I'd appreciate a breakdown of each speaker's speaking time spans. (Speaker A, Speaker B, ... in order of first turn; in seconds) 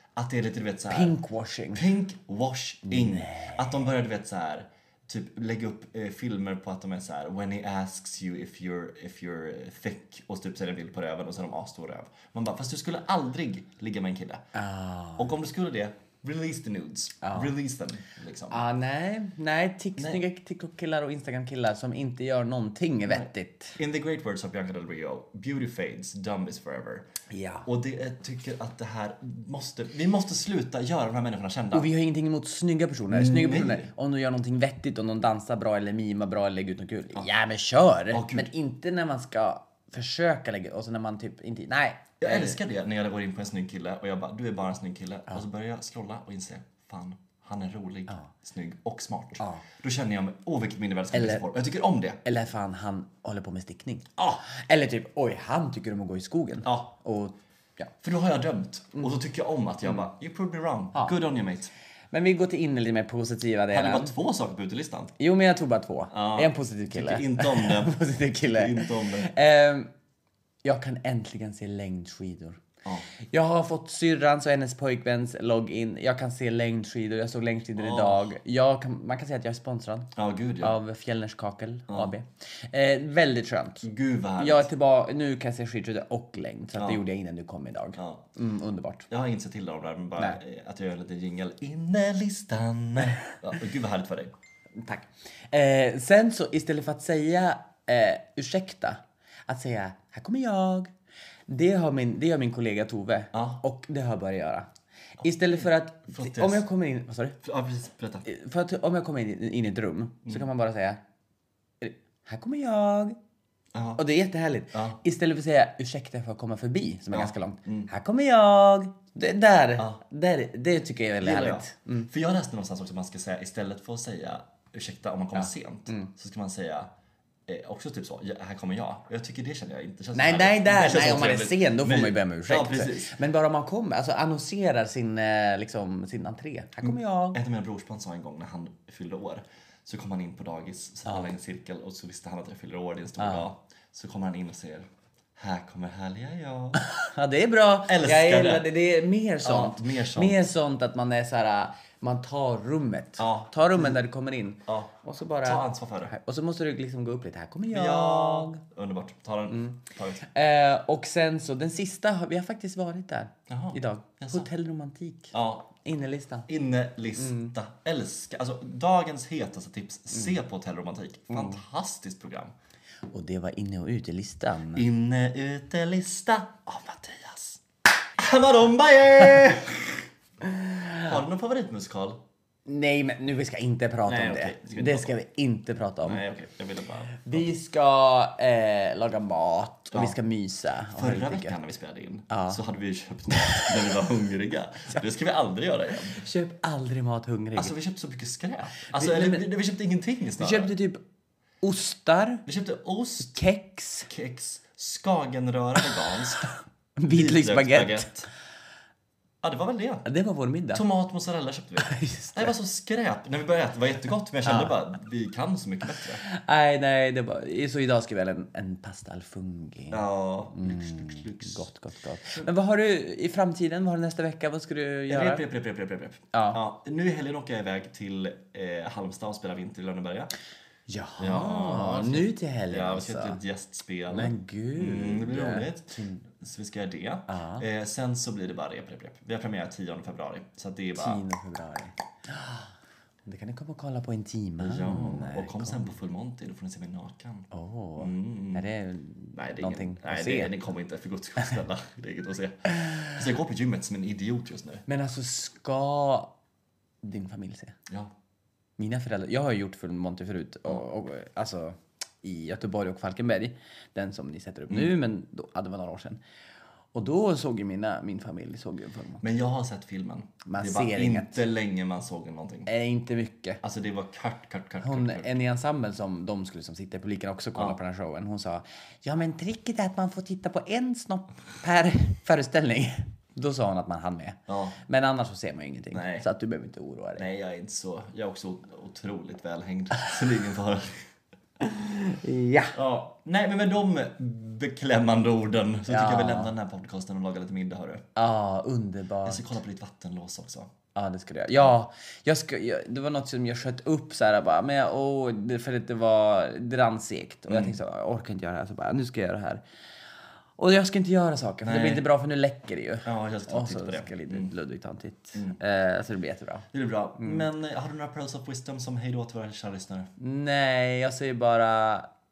Speaker A: 0.2-1.2, 1.7-14.5, 15.2-18.6, 20.0-20.2, 23.1-27.1, 27.7-31.9, 33.1-33.9, 38.1-38.5, 42.2-52.2, 56.6-56.9, 58.0-61.7, 63.7-65.1, 66.1-69.3, 77.8-78.3, 80.2-80.8, 83.8-84.7, 86.8-87.0, 88.0-88.2, 89.1-94.3, 103.3-103.6, 105.2-106.7, 107.4-108.3, 113.7-114.0, 114.7-115.0, 117.1-117.9, 121.2-126.9, 127.5-133.1, 136.8-146.8, 147.9-148.7, 149.4-150.5, 153.2-154.0, 154.7-156.1, 157.7-160.3, 163.5-164.5, 165.3-165.7, 166.5-172.5, 174.8-177.6, 178.2-180.1, 181.0-182.2, 184.1-185.1, 186.0-187.5, 189.9-190.2, 190.9-196.3, 197.6-200.7, 202.5-203.4, 204.1-206.5, 207.1-208.3, 209.4-210.1, 210.7-216.2, 219.9-221.7, 225.1-230.3, 231.2-241.2, 244.6-248.7, 249.3-254.8, 264.7-264.9, 269.2-272.7, 273.6-275.3, 284.5-284.8, 285.9-286.3, 287.2-291.1, 292.8-298.1, 299.2-300.7, 307.5-307.8, 311.6-312.1, 313.1-314.5, 316.7-320.1
Speaker B: 0.9-1.9, 2.9-3.7, 14.6-15.3, 17.2-17.5, 18.5-23.8, 27.3-27.7, 31.7-42.6, 49.4-49.6, 51.1-51.5, 52.2-57.9, 62.1-64.1, 65.2-69.9, 70.6-72.7, 73.3-83.9, 84.4-89.1, 94.8-100.9, 101.5-104.7, 105.2-107.4, 108.2-111.0, 111.8-113.2, 114.0-122.1, 125.3-126.1, 130.1-137.4, 143.2-143.5, 146.8-158.6, 159.5-166.5, 167.2-167.5, 171.3-171.6, 173.1-174.9, 180.4-181.1, 182.7-186.2, 187.2-191.6, 192.3-192.6, 193.3-193.7, 196.2-197.7, 198.9-199.5, 200.4-201.0, 201.6-202.4, 203.2-204.1, 206.4-208.1, 210.1-210.8, 211.8-212.5, 214.4-214.7, 216.2-225.4, 226.3-226.6, 230.9-233.4, 234.1-236.2, 237.3-237.7, 241.0-242.7, 243.3-245.9, 247.5-250.5, 252.7-253.1, 254.9-256.3, 257.0-257.8, 258.8-266.2, 266.9-269.2, 270.4-271.4, 272.7-273.6, 274.8-287.3, 291.6-292.8, 295.9-296.5, 298.2-299.6, 300.9-309.6, 310.6-316.7, 320.2-322.1